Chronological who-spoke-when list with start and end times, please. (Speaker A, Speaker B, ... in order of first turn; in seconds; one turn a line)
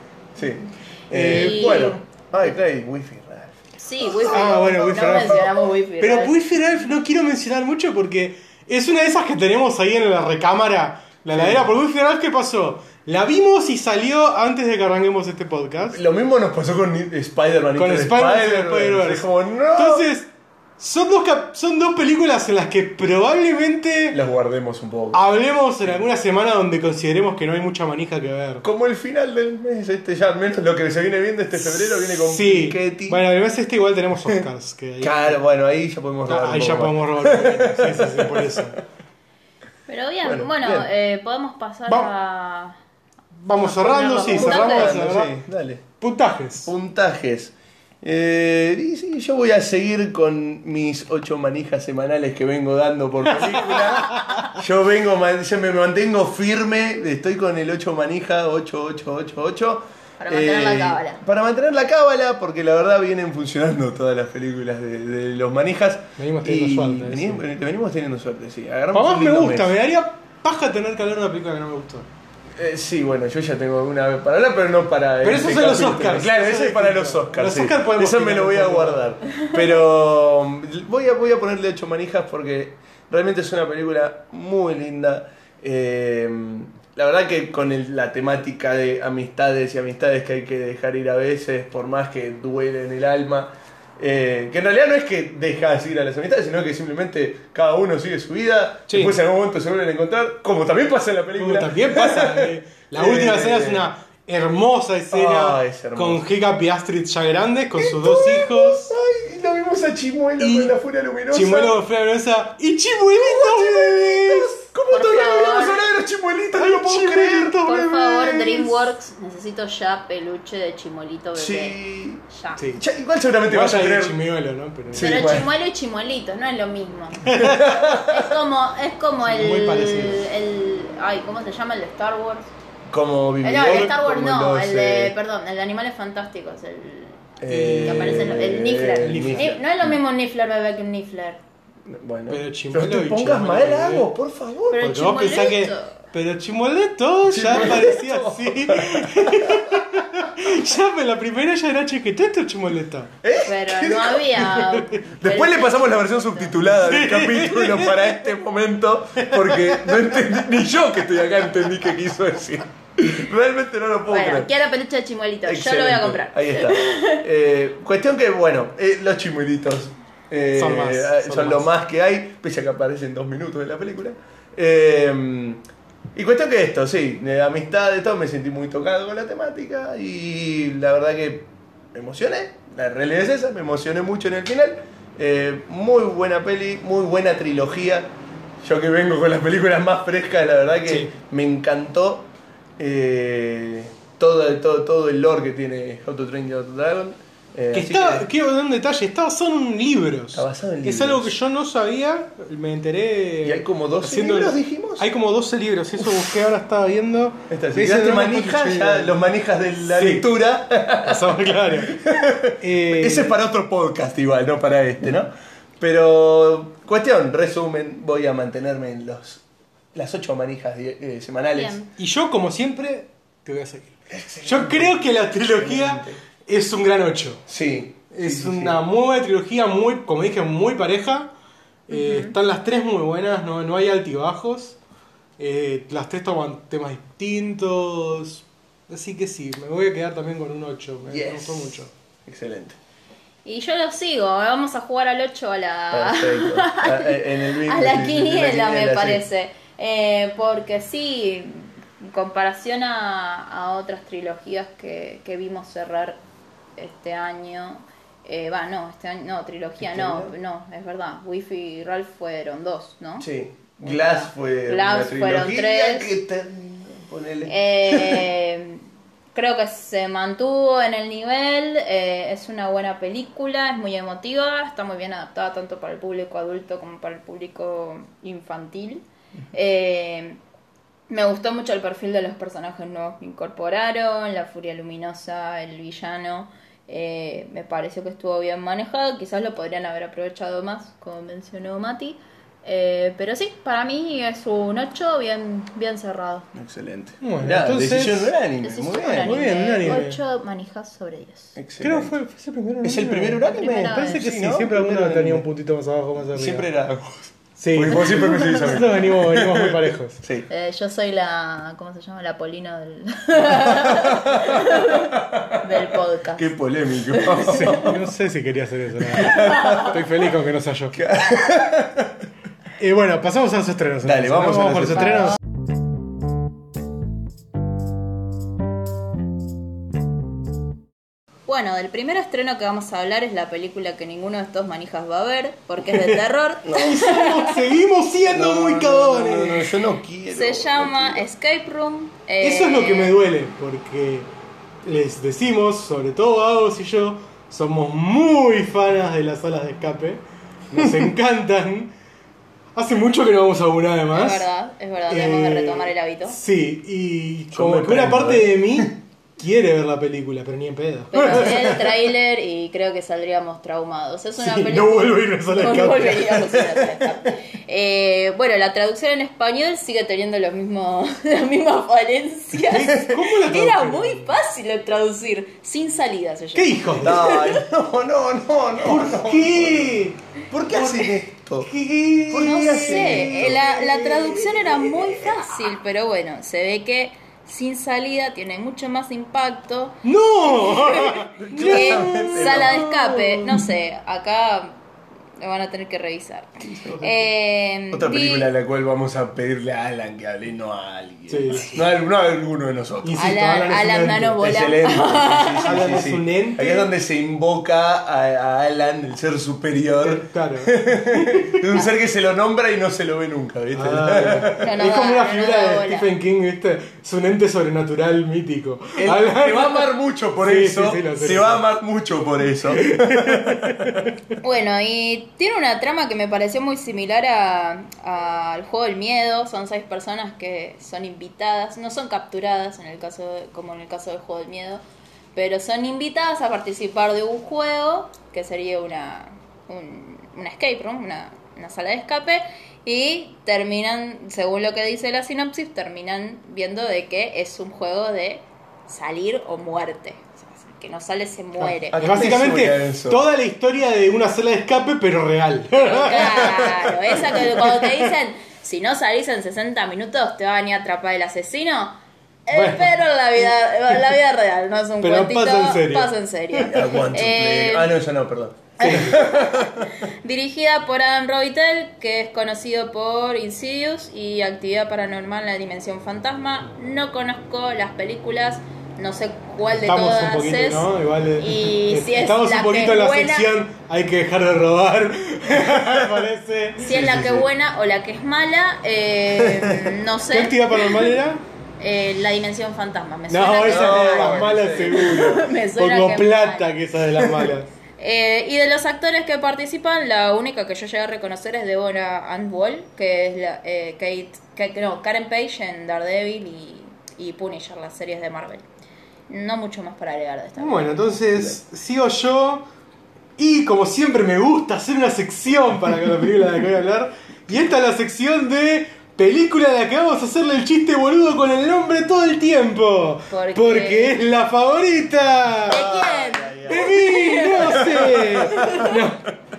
Speaker A: 0.3-3.6
Speaker B: 1.1-2.0
Speaker C: 1.2-2.0
Speaker C: 3.8-6.3
Speaker A: 4.1-4.3
Speaker B: 4.3-16.0
Speaker A: 11.3-11.7
Speaker A: 15.9-20.1
Speaker B: 17.8-24.2
Speaker A: 24.1-25.2
Speaker B: 25.1-28.6
Speaker A: 28.6-33.2
Speaker B: 31.6-35.4
Speaker A: 35.0-38.6
Speaker B: 36.3-38.8
Speaker C: 39.9-42.8
Speaker A: 40.2-40.9
Speaker B: 43.4-45.4
Speaker C: 43.6-45.0
Speaker A: 44.2-45.8
Speaker B: 46.0-46.7
Speaker A: 46.6-69.7
Speaker C: 60.2-61.2
Speaker B: 66.2-67.4
Speaker B: 68.9-72.0
Speaker A: 72.5-103.9
Speaker B: 75.2-79.1
Speaker B: 98.9-99.1
Speaker B: 101.4-108.9
Speaker A: 105.1-106.2
Speaker A: 107.8-111.7
Speaker B: 110.4-110.8
Speaker B: 111.3-114.6
Speaker A: 113.1-118.7
Speaker C: 114.9-115.9
Speaker B: 116.5-117.9
Speaker C: 117.5-121.8
Speaker A: 121.3-124.2
Speaker C: 122.3-122.6
Speaker B: 123.5-125.4
Speaker A: 124.9-125.5
Speaker C: 124.9-127.3
Speaker B: 127.2-127.6
Speaker A: 127.3-128.3
Speaker C: 127.9-132.5
Speaker B: 129.2-130.2
Speaker A: 132.9-135.1
Speaker C: 133.4-141.4
Speaker B: 133.6-133.9
Speaker A: 137.4-139.9
Speaker B: 137.5-139.5
Speaker A: 141.8-144.9
Speaker B: 142.3-144.1
Speaker C: 144.7-146.0
Speaker B: 144.8-153.1
Speaker A: 147.3-150.6
Speaker A: 153.2-154.7
Speaker C: 153.4-156.6
Speaker A: 155.2-164.5
Speaker B: 156.8-158.2
Speaker B: 159.2-160.1
Speaker C: 164.1-167.2
Speaker A: 165.4-175.6
Speaker B: 170.6-171.7
Speaker A: 176.1-188.1
Speaker A: 188.6-198.2
Speaker B: 190.9-191.1
Speaker B: 197.7-209.2
Speaker A: 200.3-201.3
Speaker A: 203.4-205.1
Speaker A: 206.0-206.4
Speaker A: 207.5-221.8
Speaker B: 209.8-210.3
Speaker B: 211.0-212.0
Speaker B: 212.6-213.3
Speaker C: 221.5-221.9
Speaker B: 222.0-227.4
Speaker A: 224.1-226.2
Speaker A: 227.5-228.8
Speaker B: 228.1-231.3
Speaker B: 231.9-234.8
Speaker C: 231.9-232.3
Speaker B: 235.4-241.9
Speaker A: 241.1-242.8
Speaker C: 243.4-256.2
Speaker A: 245.9-249.2
Speaker C: 256.8-263.3
Speaker A: 259.8-260.3
Speaker A: 263.2-268.2
Speaker C: 263.8-266.1
Speaker C: 267.5-280.4
Speaker C: 281.1-296.5
Speaker A: 296.5-299.4
Speaker B: 297.2-298.3
Speaker C: 298.6-301.6
Speaker B: 299.2-300.2
Speaker A: 301.6-302.1
Speaker B: 301.8-306.7
Speaker A: 302.8-305.5
Speaker C: 303.4-304.2
Speaker A: 306.3-310.5
Speaker B: 307.6-310.2
Speaker C: 310.5-316.5
Speaker A: 313.7-318.0
Speaker C: 317.1-317.7
Speaker B: 317.4-321.1
Speaker A: 319.0-320.0
Speaker C: 319.4-319.8
Speaker A: 320.9-322.3
Speaker B: 322.8-325.4
Speaker A: 324.0-325.3
Speaker C: 331.5-337.7
Speaker B: 335.9-336.2
Speaker A: 336.6-337.0
Speaker B: 336.7-339.7
Speaker A: 338.3-341.2
Speaker C: 340.3-343.2
Speaker B: 342.4-344.3
Speaker B: 344.8-351.9
Speaker A: 350.7-351.0
Speaker B: 352.7-354.4
Speaker C: 354.1-356.4
Speaker B: 355.1-361.9
Speaker A: 357.5-358.9
Speaker C: 361.1-377.5
Speaker B: 364.4-366.9
Speaker B: 372.6-374.3
Speaker B: 376.6-377.5
Speaker A: 377.0-380.0
Speaker B: 378.8-384.9
Speaker A: 380.5-381.7
Speaker A: 382.3-383.8
Speaker C: 382.4-394.8
Speaker B: 390.0-393.7
Speaker A: 391.4-392.9
Speaker C: 395.4-398.5
Speaker A: 396.6-397.2
Speaker A: 397.9-403.2
Speaker B: 401.3-401.8
Speaker B: 403.0-404.4
Speaker C: 403.2-406.0
Speaker A: 404.4-414.6
Speaker B: 405.6-406.8
Speaker B: 410.0-411.6
Speaker B: 413.8-419.9
Speaker C: 414.6-416.1
Speaker A: 419.0-424.1
Speaker B: 420.4-421.6
Speaker B: 422.8-424.3
Speaker C: 424.4-434.8
Speaker C: 435.3-452.0
Speaker B: 451.6-457.9
Speaker A: 451.9-453.2
Speaker C: 455.7-467.9
Speaker B: 462.5-462.9
Speaker B: 465.0-466.7
Speaker A: 466.7-469.9
Speaker B: 468.8-469.2
Speaker C: 468.8-480.9
Speaker B: 479.7-486.9
Speaker C: 481.4-483.5
Speaker C: 486.8-491.1
Speaker A: 486.8-487.5
Speaker A: 489.4-489.9
Speaker B: 490.3-491.4
Speaker C: 491.8-496.8
Speaker B: 493.3-497.7
Speaker A: 493.6-495.4
Speaker A: 497.2-497.5
Speaker C: 498.0-508.6
Speaker C: 509.3-511.1
Speaker B: 510.6-512.6
Speaker B: 513.4-525.8
Speaker C: 523.3-524.2
Speaker A: 525.7-528.9
Speaker C: 525.7-529.0
Speaker B: 526.7-529.3